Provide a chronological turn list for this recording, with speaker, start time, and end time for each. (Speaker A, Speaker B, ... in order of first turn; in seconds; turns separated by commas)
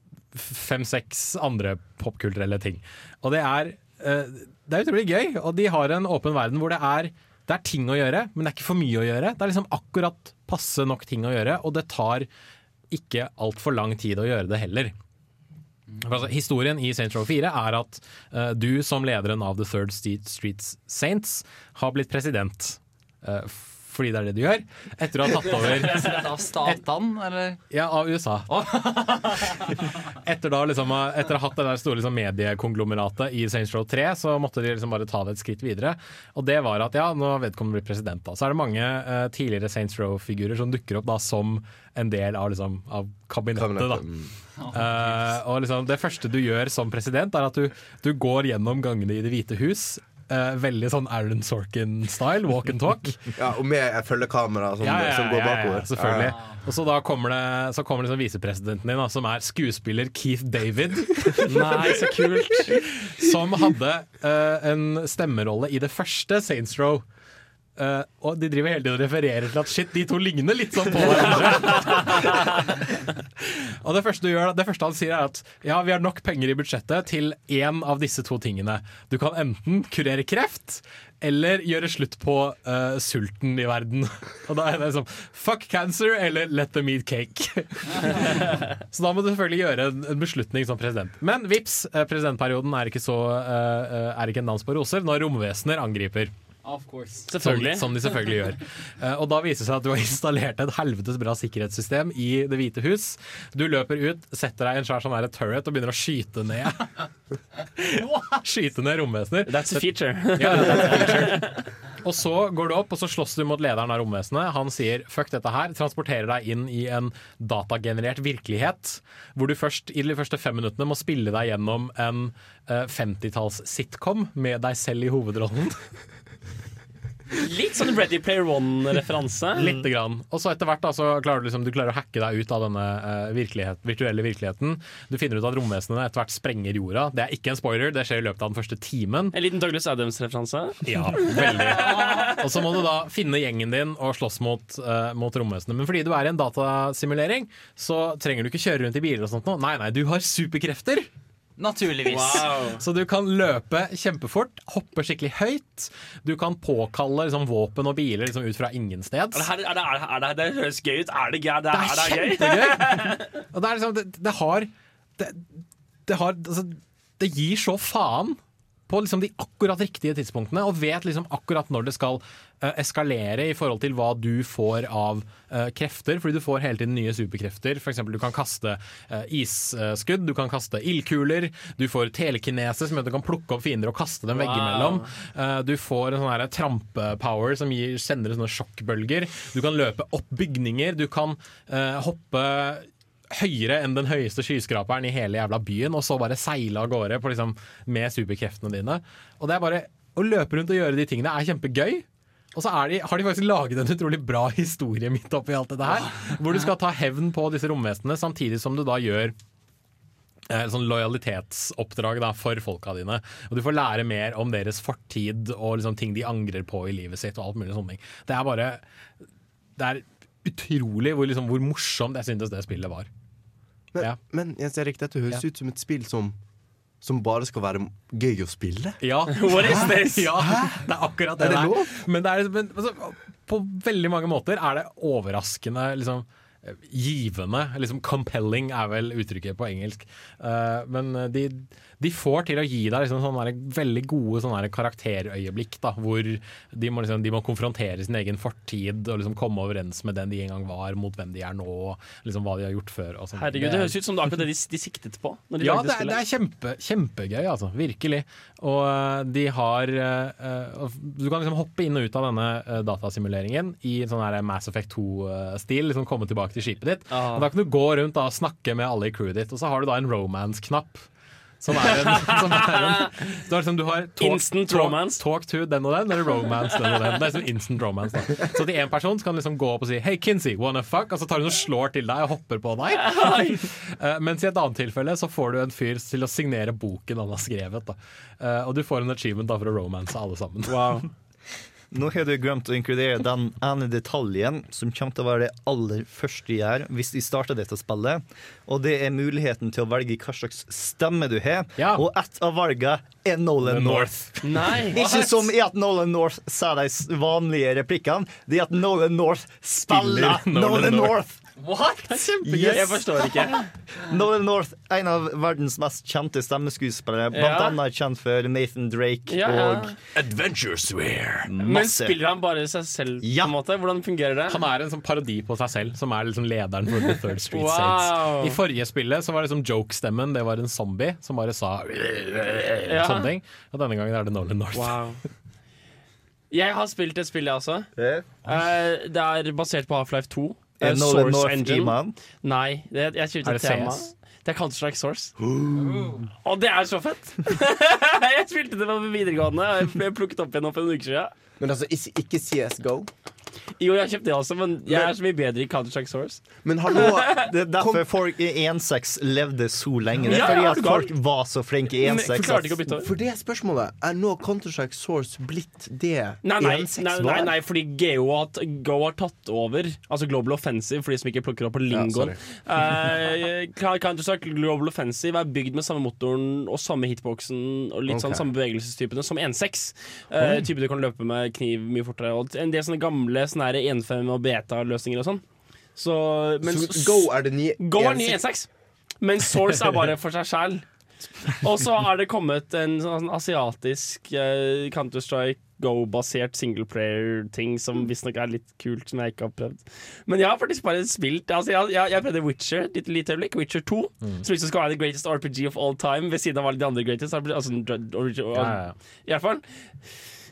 Speaker A: 0.3-12.3, Speaker A: 12.9-14.9, Speaker A: 16.0-26.8, Speaker B: 25.8-27.6, Speaker A: 27.7-29.3, Speaker A: 30.2-44.1, Speaker C: 43.5-44.3, Speaker B: 44.6-45.3, Speaker A: 44.7-53.2, Speaker C: 53.4-56.4, Speaker A: 54.8-67.0, Speaker D: 61.5-62.7, Speaker A: 67.8-72.8, Speaker A: 73.4-96.3, Speaker B: 96.7-97.2, Speaker D: 97.3-97.9, Speaker A: 97.4-106.9, Speaker A: 107.8-111.5, Speaker D: 109.5-111.6, Speaker A: 112.0-125.8, Speaker D: 127.4-129.7, Speaker A: 129.6-139.3, Speaker E: 129.6-129.9, Speaker D: 139.3-142.3, Speaker A: 140.8-151.1, Speaker B: 151.6-152.7, Speaker A: 152.1-159.5, Speaker D: 152.2-152.8, Speaker D: 159.3-163.2, Speaker A: 161.7-165.5, Speaker A: 166.1-209.3, Speaker D: 184.3-185.1, Speaker A: 210.5-218.8, Speaker A: 219.8-223.1, Speaker C: 223.9-226.3, Speaker C: 227.0-229.0, Speaker A: 229.0-253.9, Speaker D: 229.3-230.3, Speaker C: 229.6-230.9, Speaker C: 231.4-231.9, Speaker D: 253.4-256.2, Speaker A: 255.6-271.1, Speaker D: 267.1-267.4, Speaker A: 271.6-291.0, Speaker D: 271.8-273.1, Speaker D: 274.2-275.2, Speaker D: 282.9-283.6, Speaker D: 290.7-291.0, Speaker E: 291.9-311.4, Speaker A: 301.8-302.0, Speaker A: 303.6-304.3, Speaker D: 304.4-305.0, Speaker A: 309.9-311.2, Speaker D: 312.1-313.7, Speaker E: 312.4-319.9, Speaker D: 317.3-317.8, Speaker D: 319.3-319.9, Speaker C: 320.1-321.5, Speaker E: 321.4-322.2, Speaker D: 321.6-324.6, Speaker E: 323.2-323.5, Speaker A: 324.5-335.0, Speaker D: 327.5-328.6, Speaker D: 332.7-333.3, Speaker D: 334.7-335.2, Speaker D: 336.5-337.9, Speaker E: 337.9-338.2, Speaker D: 338.4-345.3, Speaker E: 340.8-342.2, Speaker A: 343.4-344.1, Speaker C: 345.4-346.1, Speaker B: 345.8-346.2, Speaker D: 346.4-351.3, Speaker C: 351.6-353.1, Speaker D: 353.8-357.5, Speaker C: 354.9-355.1, Speaker C: 356.6-358.0, Speaker E: 357.4-362.8, Speaker D: 360.2-361.1, Speaker C: 360.3-360.6, Speaker D: 361.9-363.1, Speaker C: 362.4-367.5, Speaker D: 366.4-385.4, Speaker C: 371.9-372.4, Speaker C: 378.1-378.5, Speaker D: 385.9-388.7, Speaker C: 386.6-388.5, Speaker D: 389.2-390.8, Speaker D: 391.5-410.1, Speaker A: 408.5-408.9